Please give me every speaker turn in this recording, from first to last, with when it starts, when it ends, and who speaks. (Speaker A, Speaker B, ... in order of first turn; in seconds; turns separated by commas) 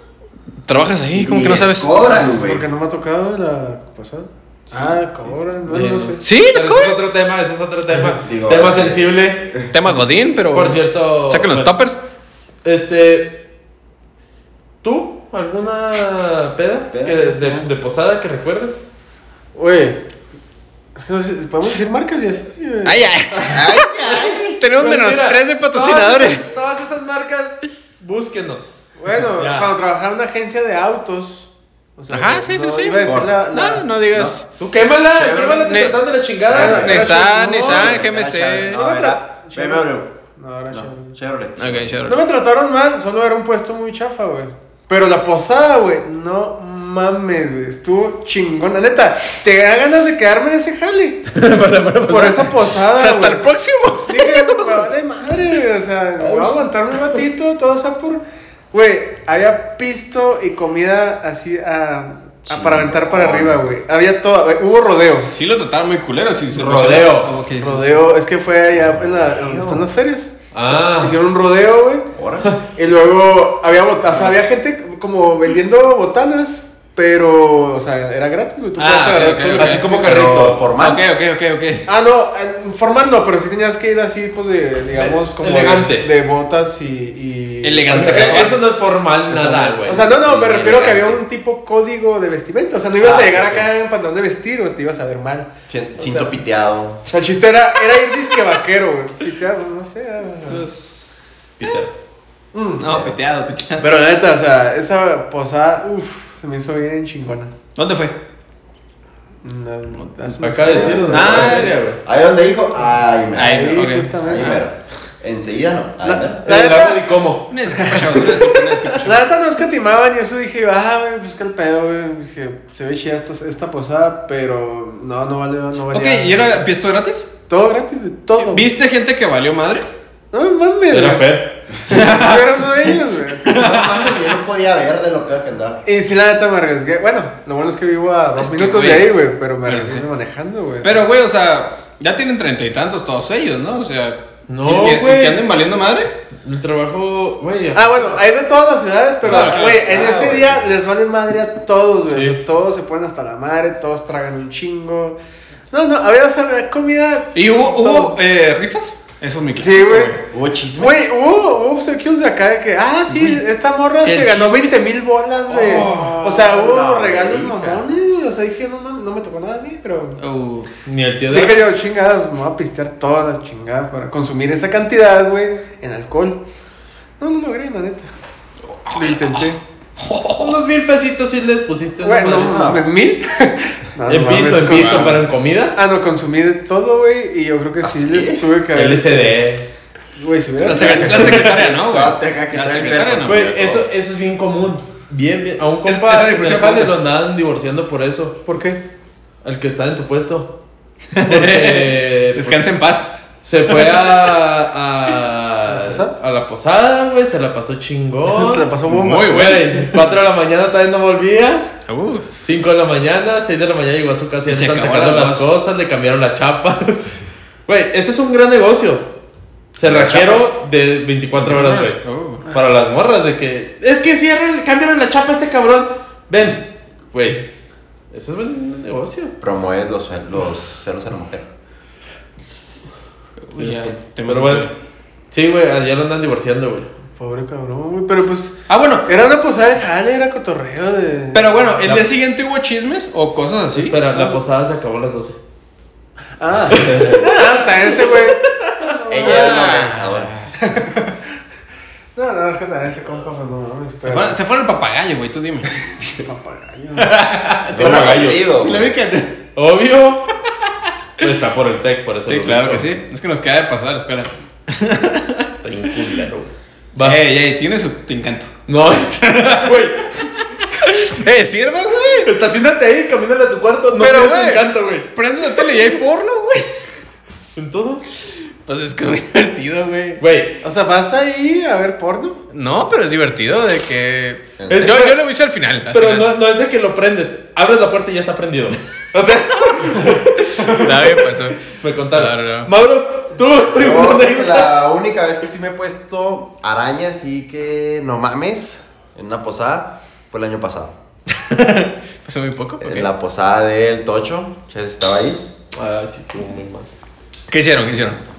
Speaker A: 0.7-2.0, Speaker B: 1.1-2.7, Speaker C: 2.0-6.2, Speaker B: 4.7-5.4, Speaker D: 5.7-9.5, Speaker A: 6.2-7.0, Speaker B: 8.0-9.7, Speaker A: 9.7-12.0, Speaker D: 10.5-11.7, Speaker D: 12.6-13.4, Speaker D: 14.8-18.9, Speaker B: 16.9-17.7, Speaker C: 19.6-20.0, Speaker C: 20.9-23.5, Speaker A: 22.8-26.5, Speaker B: 23.5-24.6, Speaker D: 24.7-29.7, Speaker C: 29.0-33.9, Speaker A: 32.1-34.4, Speaker B: 33.0-33.4, Speaker D: 34.6-37.1, Speaker B: 35.1-35.9, Speaker A: 35.7-36.0, Speaker B: 36.5-40.1, Speaker C: 36.5-38.1, Speaker A: 36.5-38.8, Speaker C: 38.7-41.1, Speaker B: 40.7-42.1, Speaker A: 41.6-42.2, Speaker C: 42.1-51.2, Speaker D: 51.3-52.5, Speaker C: 52.1-53.5, Speaker A: 52.9-54.9, Speaker C: 54.1-65.3, Speaker D: 56.2-56.7, Speaker B: 62.5-63.7, Speaker A: 65.2-68.1, Speaker D: 66.5-67.3, Speaker C: 67.6-72.1, Speaker B: 68.7-69.8, Speaker D: 70.5-71.2, Speaker B: 72.1-72.6, Speaker C: 72.6-80.2, Speaker A: 78.8-80.1, Speaker D: 79.5-80.7, Speaker B: 80.0-81.0, Speaker A: 80.8-81.9, Speaker C: 81.9-88.6, Speaker D: 85.0-86.1, Speaker A: 87.6-88.6, Speaker D: 87.9-90.0, Speaker B: 89.3-91.2, Speaker C: 89.8-96.3, Speaker B: 93.0-93.7, Speaker B: 95.7-97.0, Speaker C: 97.1-100.7, Speaker A: 100.5-101.8, Speaker D: 101.6-101.9, Speaker C: 102.5-102.8, Speaker A: 102.8-103.9, Speaker B: 102.8-103.2, Speaker C: 103.8-107.5, Speaker A: 107.8-108.2, Speaker C: 109.4-111.8, Speaker D: 110.4-112.0, Speaker B: 110.7-116.5, Speaker A: 111.1-111.8, Speaker A: 113.3-114.6, Speaker C: 113.4-114.6, Speaker C: 116.0-117.1, Speaker D: 116.4-117.5, Speaker A: 117.5-119.3, Speaker C: 117.6-126.7, Speaker A: 125.9-127.3, Speaker C: 127.5-128.7, Speaker A: 128.4-129.9, Speaker C: 130.3-131.3, Speaker D: 130.9-131.6, Speaker A: 131.9-134.4, Speaker C: 131.9-133.6, Speaker B: 133.5-135.8, Speaker C: 135.8-141.0, Speaker A: 138.4-140.1, Speaker A: 140.8-146.1, Speaker D: 144.5-145.4, Speaker D: 146.4-148.2, Speaker C: 147.8-155.2, Speaker A: 149.2-150.1, Speaker B: 149.3-150.7, Speaker D: 152.1-152.4, Speaker C: 155.7-158.2, Speaker A: 157.3-160.2, Speaker C: 159.6-160.2, Speaker B: 160.3-161.0, Speaker C: 160.8-170.2, Speaker A: 163.1-163.4, Speaker A: 164.0-164.7, Speaker B: 165.5-167.8, Speaker A: 165.5-166.2, Speaker A: 170.2-170.7, Speaker D: 170.8-171.6, Speaker C: 171.3-176.4, Speaker C: 177.2-178.1, Speaker A: 178.7-180.6, Speaker C: 178.9-179.6, Speaker D: 180.4-182.8, Speaker C: 182.0-185.2, Speaker B: 182.4-182.8, Speaker D: 184.1-185.8, Speaker A: 184.7-185.1, Speaker C: 185.8-189.4, Speaker B: 187.8-188.5, Speaker D: 188.7-189.7, Speaker C: 190.2-191.4, Speaker A: 190.6-193.4, Speaker B: 190.7-193.8, Speaker D: 193.2-198.4, Speaker A: 195.9-196.9, Speaker C: 198.5-198.8, Speaker D: 199.4-200.6, Speaker A: 201.1-203.1, Speaker D: 201.2-202.7, Speaker D: 203.4-208.7, Speaker A: 203.7-204.2, Speaker C: 205.7-206.1, Speaker C: 208.3-209.7, Speaker A: 208.9-210.0, Speaker D: 209.2-211.7, Speaker A: 211.9-212.4, Speaker D: 212.4-219.1, Speaker A: 214.5-215.5, Speaker D: 219.7-227.5, Speaker B: 219.8-220.5, Speaker A: 221.4-222.5, Speaker D: 228.1-229.3, Speaker B: 229.4-231.5, Speaker A: 233.5-234.7, Speaker D: 233.6-234.7, Speaker D: 235.3-236.9, Speaker C: 237.2-242.0, Speaker A: 238.7-239.1, Speaker A: 241.3-244.0, Speaker D: 243.7-245.4, Speaker C: 244.1-244.4, Speaker C: 246.4-250.0, Speaker D: 246.7-247.3, Speaker B: 249.1-250.3, Speaker A: 249.2-250.5, Speaker C: 250.6-251.2, Speaker C: 252.2-254.4, Speaker A: 254.0-256.2, Speaker C: 256.2-257.2, Speaker A: 257.0-259.4, Speaker B: 257.7-258.9, Speaker D: 257.7-258.6, Speaker D: 259.6-260.3, Speaker D: 261.2-262.9, Speaker A: 262.3-265.5, Speaker D: 265.6-267.2, Speaker A: 267.0-268.6, Speaker D: 268.7-270.1, Speaker A: 269.2-272.3, Speaker D: 272.2-275.1, Speaker A: 274.0-276.7, Speaker D: 277.6-278.1, Speaker A: 278.7-280.2, Speaker D: 280.2-280.6, Speaker C: 280.6-282.4, Speaker A: 282.5-286.3, Speaker B: 284.6-284.9, Speaker D: 284.7-285.2, Speaker D: 285.9-294.7, Speaker A: 290.6-292.7, Speaker B: 293.7-300.9, Speaker A: 301.3-303.1, Speaker B: 302.8-305.4, Speaker D: 305.7-306.9, Speaker A: 307.5-308.2